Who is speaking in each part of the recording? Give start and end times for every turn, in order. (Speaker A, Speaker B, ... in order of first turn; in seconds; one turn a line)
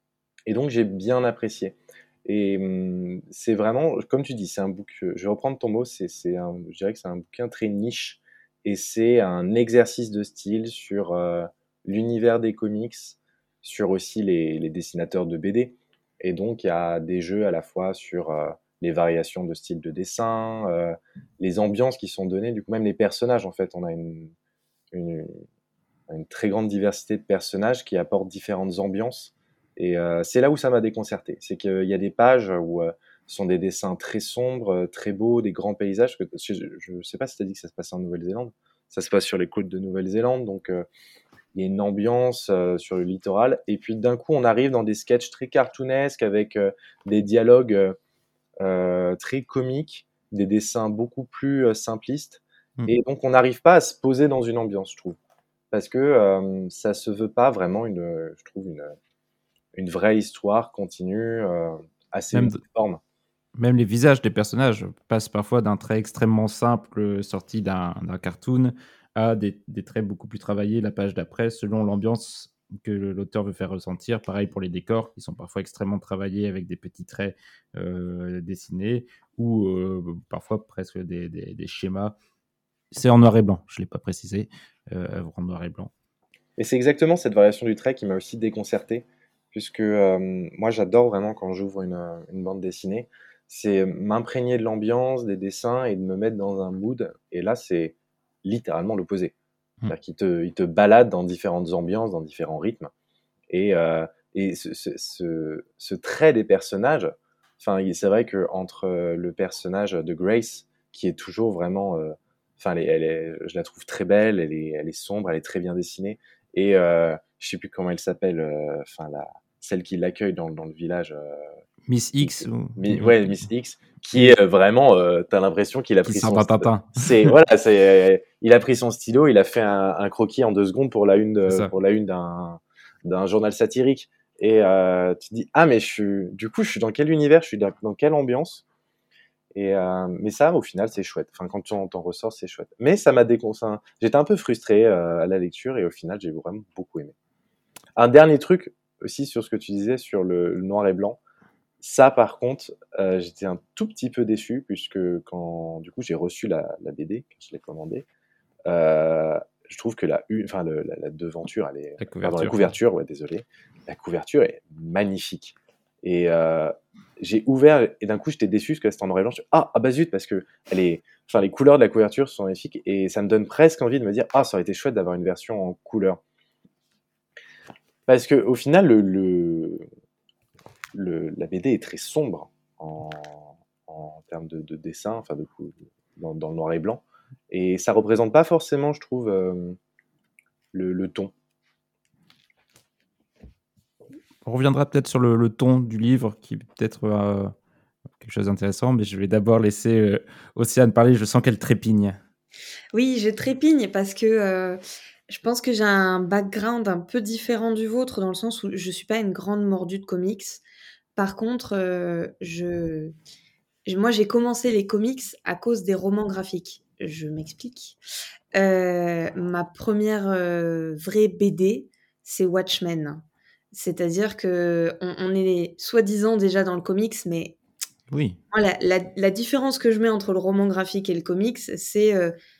Speaker A: 0.5-24.3
Speaker A: 24.9-25.4
Speaker A: 26.1-40.9
Speaker A: 41.5-48.0
Speaker A: 48.6-55.2
Speaker A: 55.7-58.9
Speaker A: 59.7-63.0
Speaker B: 62.3-62.6
Speaker B: 63.6-82.2
Speaker B: 82.9-85.9
Speaker A: 86.6-99.3
Speaker A: 99.9-102.9
Speaker A: 103.5-121.5
Speaker B: 121.9-123.3
Speaker A: 122.2-138.6
Speaker B: 126.0-127.3
Speaker A: 139.5-147.1
Speaker A: 147.9-151.2
Speaker A: 151.8-158.1
Speaker A: 158.7-176.2
Speaker B: 162.0-162.7
Speaker A: 178.1-179.9
Speaker A: 180.9-189.8
Speaker A: 190.7-191.3
Speaker B: 194.4-197.5
Speaker B: 198.2-202.2
Speaker C: 202.9-210.6
Speaker C: 211.2-213.1
Speaker C: 213.9-218.0
Speaker C: 218.5-227.6
Speaker B: 228.1-228.4
Speaker C: 228.5-232.3